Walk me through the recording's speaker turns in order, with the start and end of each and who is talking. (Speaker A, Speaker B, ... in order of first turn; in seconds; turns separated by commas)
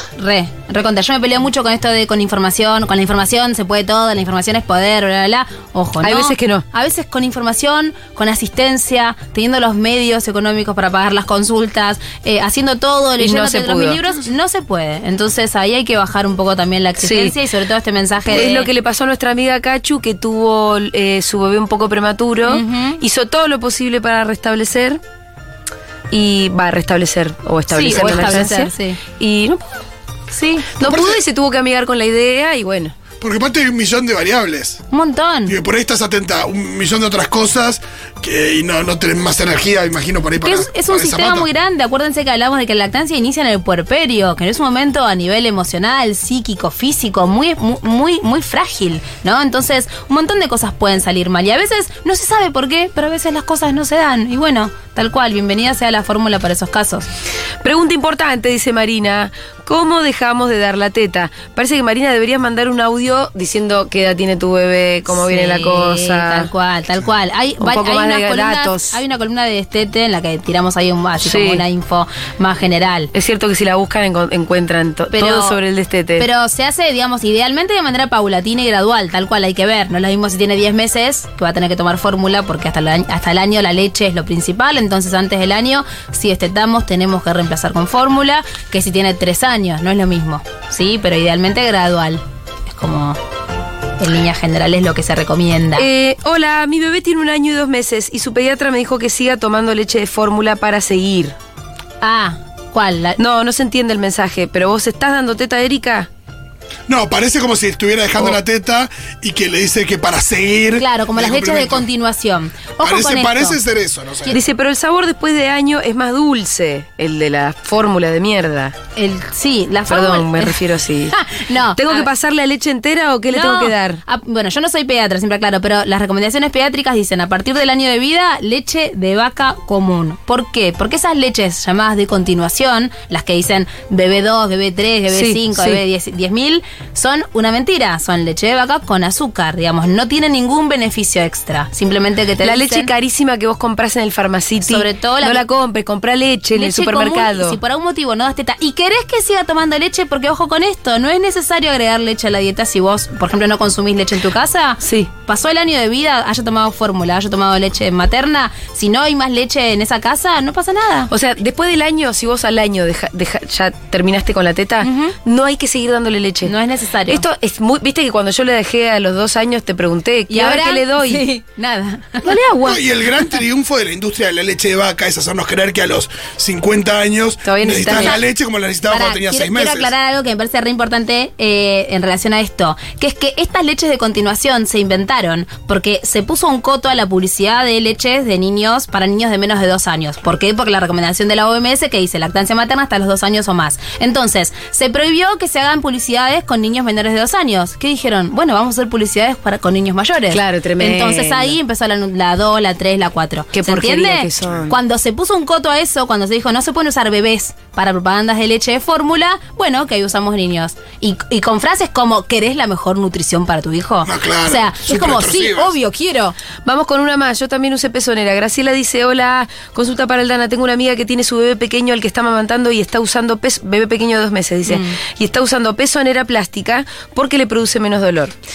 Speaker A: 0.2-18.7, Speaker B: 6.0-6.6, Speaker B: 13.2-14.0, Speaker B: 17.0-17.4, Speaker B: 18.3-25.0, Speaker A: 22.5-23.0, Speaker B: 26.1-29.8, Speaker A: 27.7-29.0, Speaker C: 27.9-28.4, Speaker A: 30.3-30.7, Speaker B: 30.8-32.9, Speaker C: 30.8-31.2, Speaker C: 33.2-34.8, Speaker A: 34.9-35.5, Speaker C: 35.5-41.5, Speaker A: 40.4-57.1, Speaker B: 57.6-66.5, Speaker A: 65.1-73.1, Speaker B: 67.6-69.0, Speaker B: 71.2-71.6, Speaker B: 73.1-76.3, Speaker A: 75.1-75.6, Speaker A: 76.2-93.2, Speaker A: 94.0-95.9, Speaker B: 95.8-101.3, Speaker A: 102.0-103.2, Speaker B: 103.2-106.1, Speaker C: 106.9-111.9, Speaker A: 110.8-113.6, Speaker C: 112.8-114.4, Speaker B: 114.3-118.8, Speaker A: 119.0-122.1, Speaker B: 119.9-121.2, Speaker B: 121.7-124.0, Speaker A: 123.3-142.9, Speaker B: 135.1-135.8, Speaker B: 142.4-147.6, Speaker A: 144.7-145.4, Speaker A: 146.5-161.1, Speaker B: 154.8-155.1, Speaker B: 161.1-166.5, Speaker A: 164.8-165.1, Speaker A: 166.4-167.2, Speaker B: 167.1-171.2, Speaker A: 170.3-172.3, Speaker B: 172.2-172.8, Speaker C: 172.6-179.9, Speaker B: 177.4-178.2, Speaker A: 178.9-216.4, Speaker B: 200.3-201.6, Speaker B: 203.5-204.8, Speaker C: 214.0-215.7, Speaker B: 216.7-228.3, Speaker A: 224.7-225.0